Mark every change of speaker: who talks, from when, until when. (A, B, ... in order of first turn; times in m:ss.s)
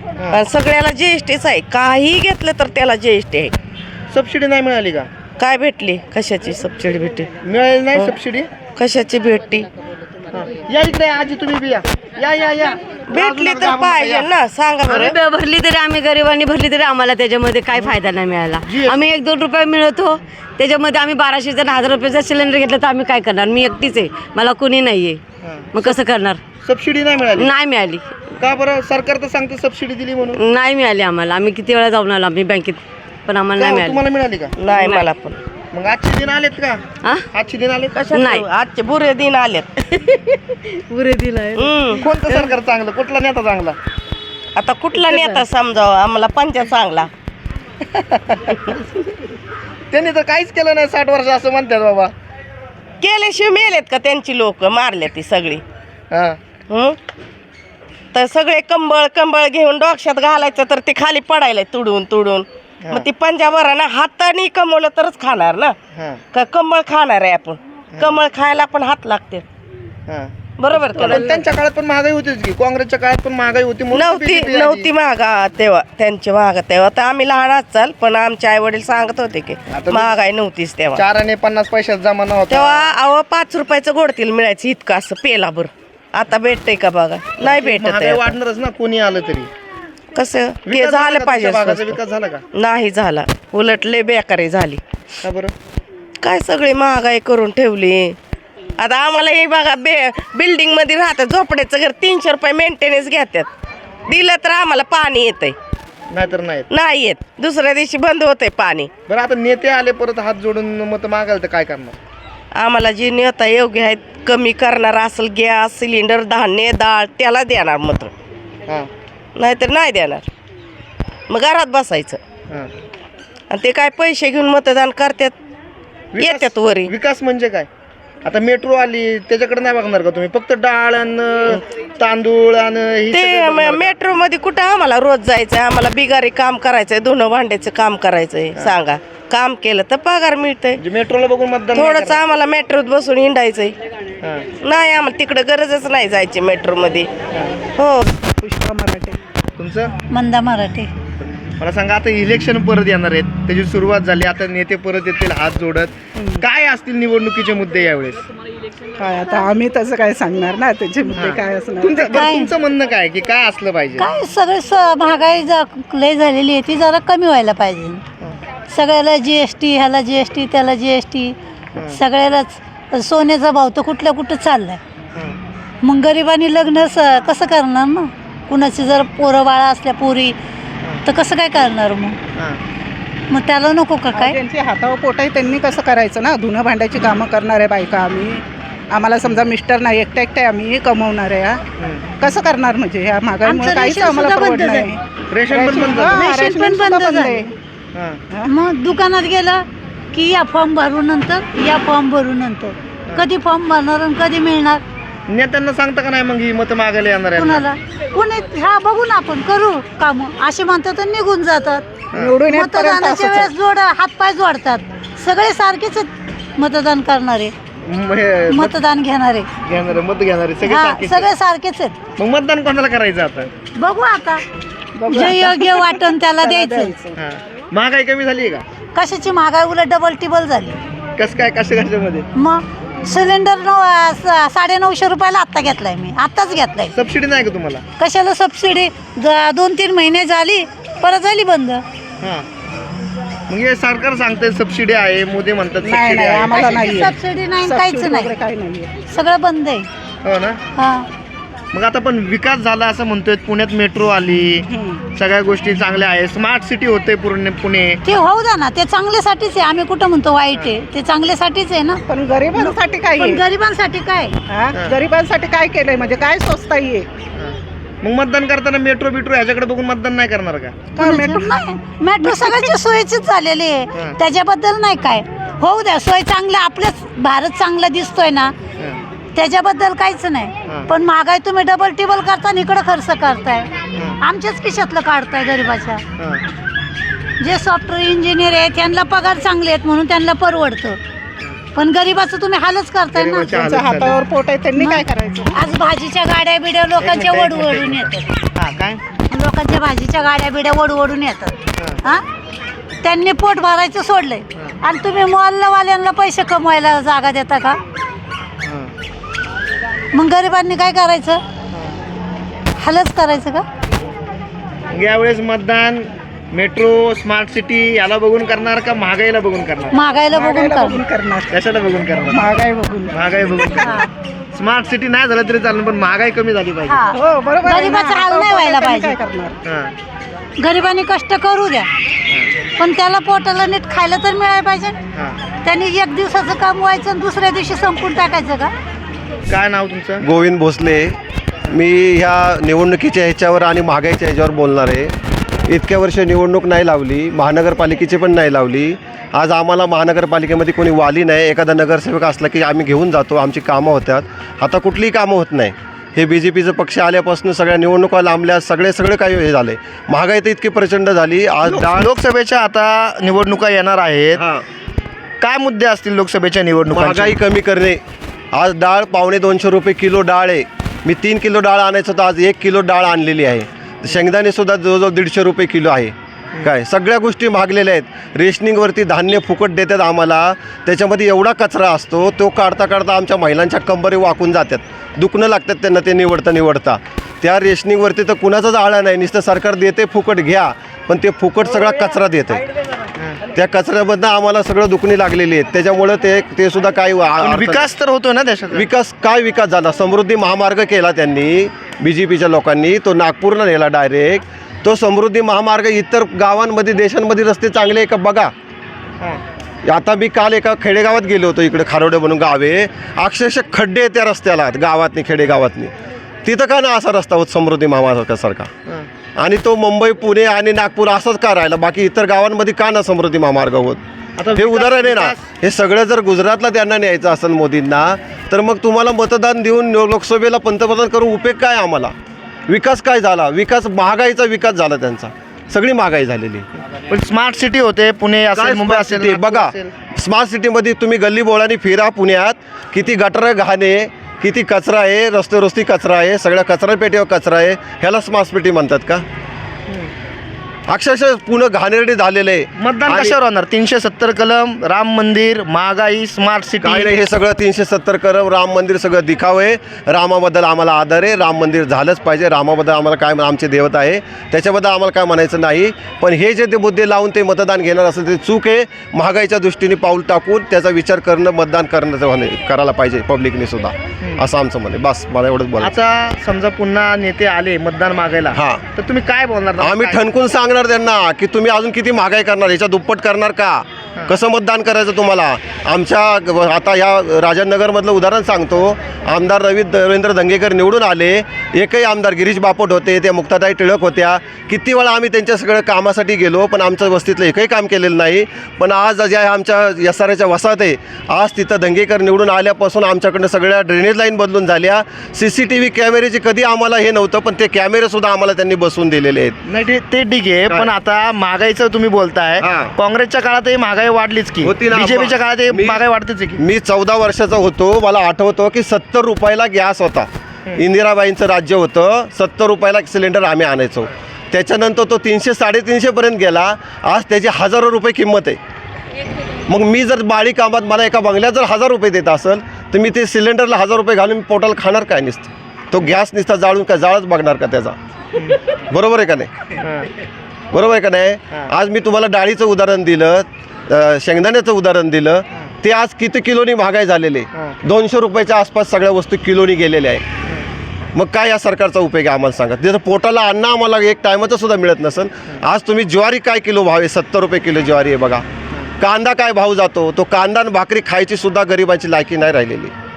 0:00.3-0:03.5 A
0:04.1-0:05.1 B
0:05.4-0:07.3 A
0:07.4-0:08.5 B
0:08.8-0:09.7 A
0:10.3-0:14.3 B
0:13.1-0:15.2 A
0:14.9-0:25.2 C
0:18.6-0:19.0 B
0:25.4-0:26.0 B
0:25.7-0:26.4 C
0:26.6-0:27.5 B
0:27.4-0:28.0 C
0:28.4-0:30.4 B
0:30.4-0:34.0 C
0:33.6-0:34.5 B
0:34.6-0:35.4 A
0:34.7-0:35.0 C
0:35.7-0:36.8 B
0:37.3-0:38.0 B
0:38.0-0:40.4 A
0:38.1-0:38.4 C
0:40.9-0:41.9 C
0:41.6-0:42.0 A
0:42.0-0:43.8 B
0:44.6-0:47.1 A
0:45.0-0:45.4 C
0:47.9-0:48.8 B
0:49.9-0:52.1 B
0:53.0-0:55.6 A
0:56.1-0:56.4 B
0:56.7-0:57.0 A
0:58.1-1:05.8 A
1:05.9-1:06.2 B
1:06.3-1:09.4 A
1:10.1-1:10.3 B
1:10.6-1:11.4 A
1:10.9-1:14.9 B
1:13.9-1:21.0 A
1:19.7-1:20.1 B
1:21.0-1:22.9 B
1:22.5-1:28.4 A
1:27.4-1:29.5 B
1:30.2-1:32.0 A
1:30.7-1:32.4 B
1:32.6-1:34.8 A
1:35.2-1:35.5 B
1:36.2-1:38.2 A
1:38.8-1:43.5 A
1:44.1-1:45.6 A
1:46.1-1:46.7 B
1:46.7-1:48.9 A
1:49.1-1:52.0 B
1:52.6-1:58.1 A
1:59.4-2:00.2 A
2:01.3-2:02.2 A
2:03.5-2:05.4 A
2:06.1-2:07.7 B
2:06.2-2:06.9 A
2:08.2-2:14.0 B
2:13.1-2:20.8 A
2:20.8-2:22.2 B
2:21.7-2:23.8 A
2:24.2-2:24.5 B
2:24.6-2:27.1 A
2:27.8-2:28.1 A
2:28.4-2:29.2 D
2:29.6-2:29.9 B
2:30.1-2:30.9 E
2:31.6-2:38.2 B
2:36.2-2:36.4 D
2:39.0-2:42.1 D
2:41.2-2:44.1 B
2:42.1-2:42.5 E
2:44.0-2:48.0 E
2:48.7-2:54.8 E
2:55.8-3:00.4 E
3:01.1-3:02.2 E
3:03.3-3:04.4 E
3:04.1-3:11.6 D
3:11.8-3:12.0 B
3:12.2-3:17.5 D
3:13.4-3:14.9 E
3:15.3-3:16.3 B
3:16.1-3:17.4 E
3:18.5-3:24.8 E
3:25.3-3:27.6 B
3:27.4-3:31.8 E
3:32.2-3:33.5 D
3:32.4-3:37.5 E
3:37.8-3:38.8 B
3:38.5-3:39.5 E
3:39.7-3:41.3 B
3:40.6-3:42.0 E
3:42.2-3:43.5 B
3:43.8-3:44.4 E
3:45.0-3:47.2 D
3:45.1-3:46.9 E
3:47.2-3:48.6 B
3:49.0-3:50.8 E
3:51.2-3:52.3 B
3:52.4-3:56.9 E
3:56.9-3:57.8 B
3:58.0-4:01.8 E
4:02.2-4:02.5 B
4:03.5-4:06.8 B
4:05.8-4:08.9 D
4:06.5-4:08.4 E
4:09.0-4:09.9 E
4:10.2-4:10.6 B
4:10.8-4:11.1 E
4:11.7-4:18.0 B
4:14.7-4:15.0 D
4:18.0-4:22.0 E
4:22.1-4:23.4 D
4:22.6-4:24.4 E
4:24.5-4:27.1 D
4:24.7-4:25.0 B
4:27.4-4:30.9 B
4:31.0-4:31.5 D
4:31.0-4:38.5 E
4:32.2-4:32.7 D
4:39.4-4:46.0 E
4:46.2-4:46.4 B
4:47.4-4:51.0 E
4:51.8-4:53.6 E
4:53.2-4:54.2 B
4:53.6-4:55.7 D
4:54.8-4:58.2 E
4:57.0-4:59.0 B
4:59.3-5:02.2 E
5:03.0-5:07.8 E
5:08.6-5:08.9 B
5:10.1-5:11.4 E
5:12.8-5:13.6 E
5:14.9-5:20.0 B
5:19.9-5:21.0 E
5:20.3-5:21.5 D
5:21.5-5:22.5 B
5:22.3-5:23.7 D
5:23.1-5:27.1 B
5:26.9-5:29.2 E
5:27.1-5:29.6 D
5:29.6-5:29.9 B
5:30.6-5:31.9 E
5:32.8-5:35.0 E
5:35.6-5:38.7 E
5:39.5-5:40.2 B
5:40.2-5:41.2 F
5:41.7-5:45.1 F
5:45.7-6:02.1 F
6:01.6-6:04.4 B
6:04.4-6:04.6 F
6:05.4-6:07.4 B
6:06.9-6:08.0 F
6:08.5-6:32.6 F
6:33.5-6:37.9 F
6:37.4-6:38.9 B
6:38.7-6:48.5 F
6:49.8-6:55.9 F
6:56.4-6:58.7 F
6:59.4-7:04.0 F
7:04.4-7:05.4 B
7:04.5-7:12.1 F
7:12.7-7:16.7 F
7:17.1-7:19.9 B
7:18.6-7:29.2 F
7:29.9-7:30.1 B
7:30.9-7:33.4 F
7:32.8-7:37.1 B
7:36.8-7:56.0 F
7:55.8-8:00.2 B
7:58.5-7:58.8 F
7:59.8-8:29.6 F
8:29.7-8:36.6 B
8:32.6-8:32.9 F
8:34.6-8:36.0 F
8:36.6-8:48.6 F
8:49.7-8:58.0 F
8:58.4-8:58.6 B
8:58.9-8:59.5 F
8:59.8-9:00.1 B
9:00.7-9:10.3 F
9:11.2-9:18.4 F
9:19.0-9:22.9 F